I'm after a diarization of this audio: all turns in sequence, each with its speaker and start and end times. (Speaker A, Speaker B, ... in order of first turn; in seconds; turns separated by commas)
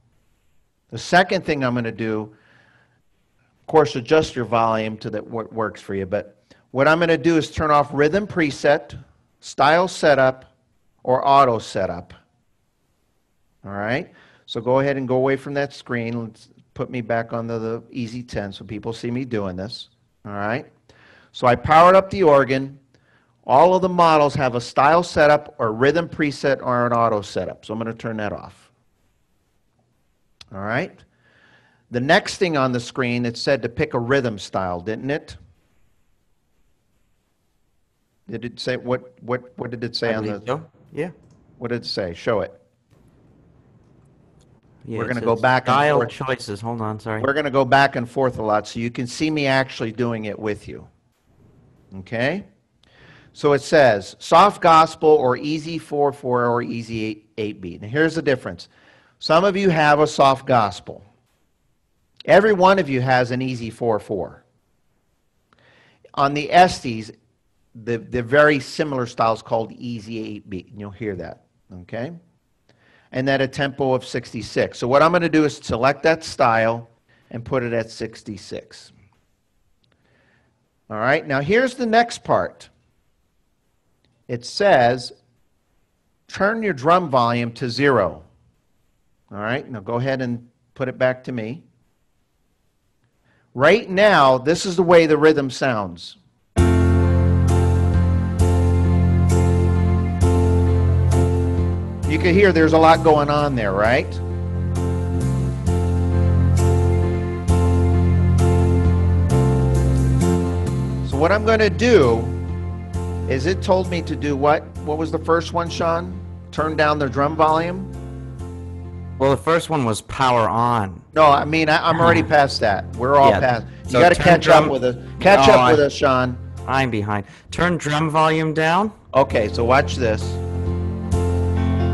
Speaker A: 0.9-2.3, Speaker A: 3.7-10.5, Speaker A: 11.0-12.2, Speaker A: 13.6-20.7, Speaker A: 21.3-22.8, Speaker A: 23.5-28.7, Speaker A: 30.5-31.0, Speaker A: 31.9-35.4, Speaker A: 38.3-40.5, Speaker B: 40.0-41.1, Speaker A: 41.6-42.6, Speaker B: 44.8-47.3, Speaker A: 45.0-46.1, Speaker A: 47.2-50.9, Speaker A: 51.9-52.5, Speaker A: 53.3-58.7, Speaker A: 59.2-61.0, Speaker A: 62.3-64.4, Speaker A: 66.2-67.1, Speaker A: 67.8-72.2, Speaker A: 73.1-78.9, Speaker A: 80.9-82.7, Speaker A: 84.3-85.1, Speaker A: 86.3-88.2, Speaker A: 89.3-91.6, Speaker A: 93.5-96.2, Speaker A: 102.1-104.2, Speaker A: 111.0-112.4, Speaker A: 113.3-117.9, Speaker B: 119.2-121.0, Speaker A: 121.1-126.4, Speaker B: 121.9-122.3, Speaker B: 123.2-125.9, Speaker B: 126.7-128.9, Speaker A: 129.1-130.4